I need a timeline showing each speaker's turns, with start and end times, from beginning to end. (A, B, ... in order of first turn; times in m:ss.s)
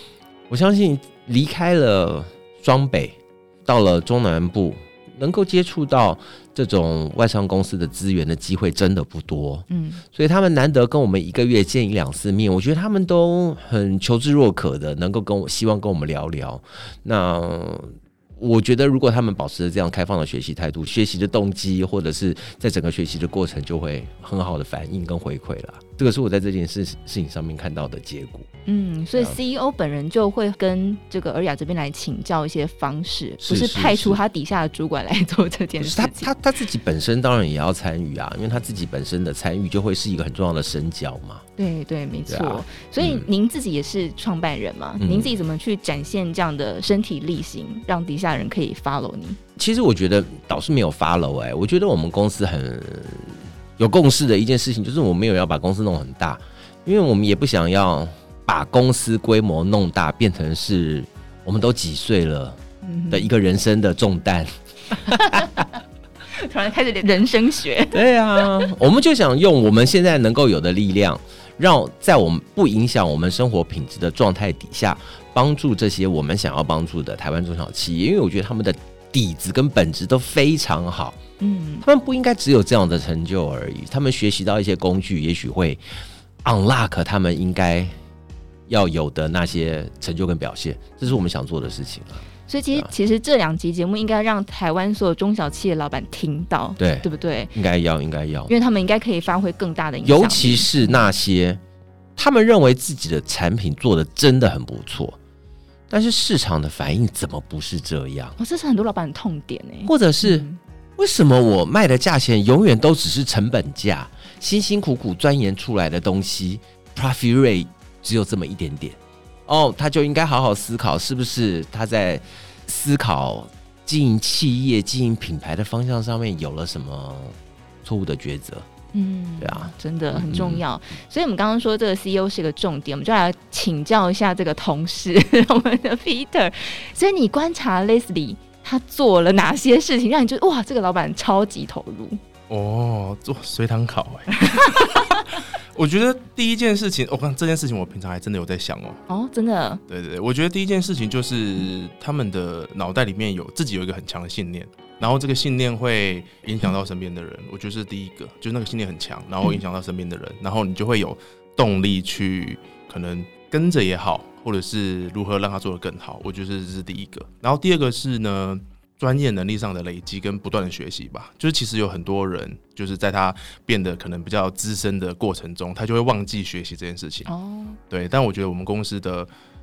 0:00.5-0:28.5 A
0:09.7-0:10.0 B
0:28.7-0:36.3 B
0:33.4-0:34.2 A
0:35.8-0:41.4 A
0:41.6-0:49.4 B
0:42.3-0:43.3 A
0:45.0-0:45.3 A
0:49.6-1:02.6 A
1:02.8-1:03.3 B
1:03.1-1:05.5 A
1:06.4-1:08.0 B
1:07.9-1:21.2 A
1:21.4-1:21.9 B
1:21.8-1:25.8 A
1:26.4-1:27.9 A
1:28.7-1:32.9 A
1:32.5-1:37.5 B
1:36.8-1:38.5 A
1:38.5-1:41.0 B
1:40.0-1:41.6 A
1:42.2-1:45.2 A
1:45.9-1:48.4 A
1:48.4-1:50.6 B
1:49.9-2:08.7 A
2:08.9-2:22.2 B
2:09.4-2:10.6 A
2:22.5-2:25.0 C
2:24.5-2:25.2 B
2:25.7-2:29.0 C
2:29.1-2:29.8 B
2:29.9-2:57.3 C
2:57.3-2:57.8 B
2:57.9-2:59.3 C